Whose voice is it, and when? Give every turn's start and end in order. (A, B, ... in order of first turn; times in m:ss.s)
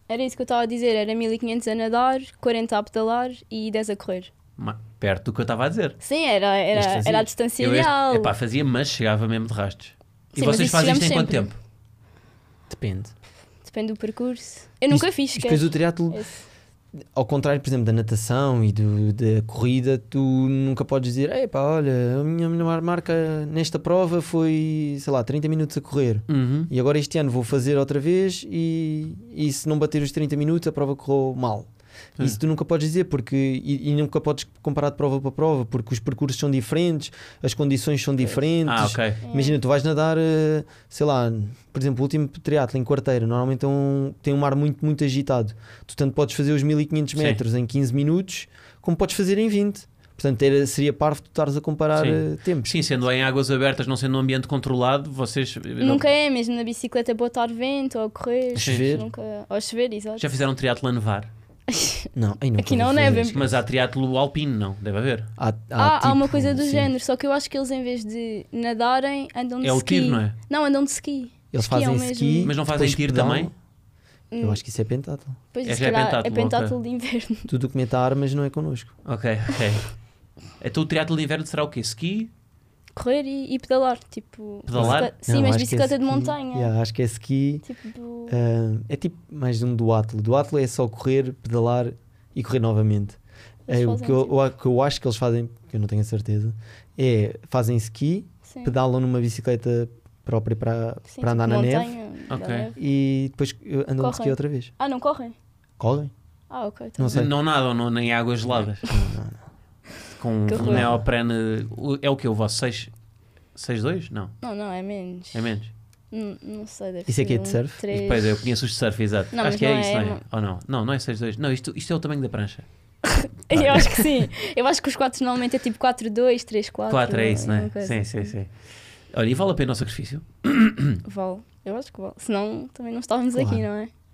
0:00.1-0:04.3 A
0:04.6-0:06.0 B
0:06.0-0:08.3 A
0:06.8-0:11.6 B
0:10.4-0:11.5 A
0:12.7-0:13.1 C
0:13.6-0:16.4 A
0:14.9-0:16.3 C
0:17.1-0:52.7 C
0:26.3-0:26.7 B
0:38.6-0:39.2 B
0:39.2-0:39.6 A
0:47.2-0:47.4 B
0:52.0-0:56.0 B
0:55.8-1:00.3 A
0:58.6-0:59.1 C
0:58.6-0:59.0 B
1:00.2-1:01.3 B
1:01.7-1:03.4 A
1:02.1-1:03.6 C
1:03.3-1:05.3 B
1:05.4-1:06.9 C
1:05.8-1:12.6 A
1:09.6-1:10.4 B
1:11.5-1:13.5 C
1:12.4-1:13.5 B
1:14.3-1:14.6 A
1:14.4-1:15.4 C
1:15.5-1:17.5 A
1:15.6-1:16.8 B
1:17.5-1:18.9 C
1:19.0-1:19.9 B
1:20.6-1:22.3 B
1:23.0-1:26.7 A
1:24.7-1:25.1 B
1:24.7-1:27.6 C
1:27.6-1:28.4 A
1:28.3-1:42.0 C
1:33.7-1:34.3 A
1:38.5-1:38.7 A
1:41.1-1:42.8 A
1:42.3-1:42.7 B
1:42.8-1:44.7 C
1:44.0-1:45.4 A
1:45.8-1:46.1 C
1:46.5-1:47.2 A
1:47.0-1:47.3 C
1:47.1-1:48.9 B
1:48.9-1:49.4 C
1:50.2-1:52.9 B
1:50.5-1:50.9 A
1:50.6-1:51.0 C
1:53.6-1:54.4 B
1:54.4-1:55.5 A
1:55.3-1:55.7 B
1:56.1-1:58.4 A
1:57.1-1:57.8 C
1:57.9-2:02.7 B
1:59.3-2:00.2 A
2:03.1-2:08.4 A
2:03.5-2:04.0 B
2:06.9-2:08.5 B
2:09.1-2:11.0 B
2:11.0-2:13.9 A
2:13.3-2:13.6 C